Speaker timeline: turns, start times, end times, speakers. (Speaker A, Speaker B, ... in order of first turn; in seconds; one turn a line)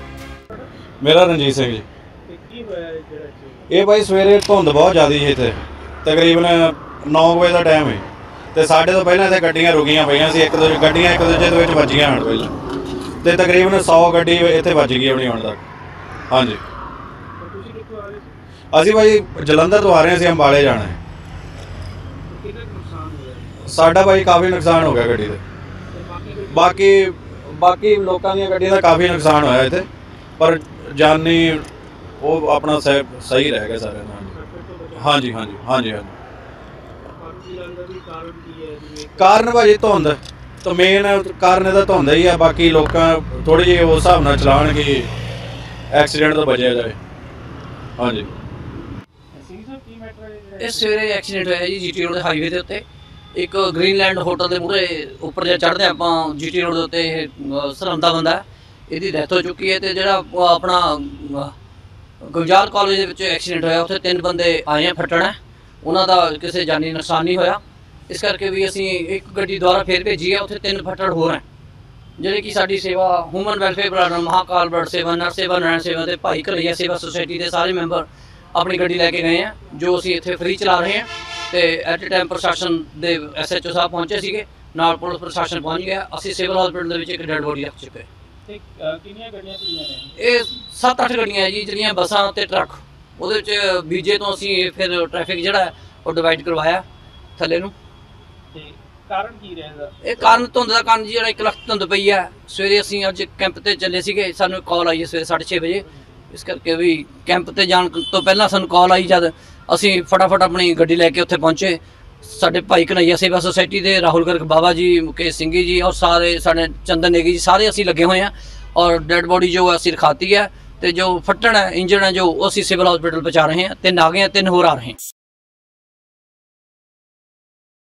Speaker A: 1.0-1.9
Speaker B: 2.3-3.7
Speaker A: 3.7-12.5
Speaker A: 13.2-15.7
Speaker A: 16.3-16.6
Speaker B: 17.4-18.3
Speaker A: 18.7-21.0
Speaker B: 22.3-23.7
Speaker A: 23.6-25.4
Speaker B: 25.9-26.9
Speaker A: 26.5-29.9
Speaker A: 30.4-31.7
Speaker A: 32.2-34.3
Speaker B: 34.3-35.7
Speaker A: 35.0-36.1
Speaker B: 37.1-39.4
Speaker A: 39.2-45.1
Speaker A: 45.9-47.0
Speaker A: 48.0-48.3
Speaker B: 49.3-50.9
Speaker C: 50.6-61.5
Speaker C: 62.2-71.4
Speaker C: 72.2-88.1
Speaker B: 88.5-90.2
Speaker C: 90.2-96.8
Speaker C: 97.4-97.7
Speaker B: 98.5-100.4
Speaker C: 100.0-125.0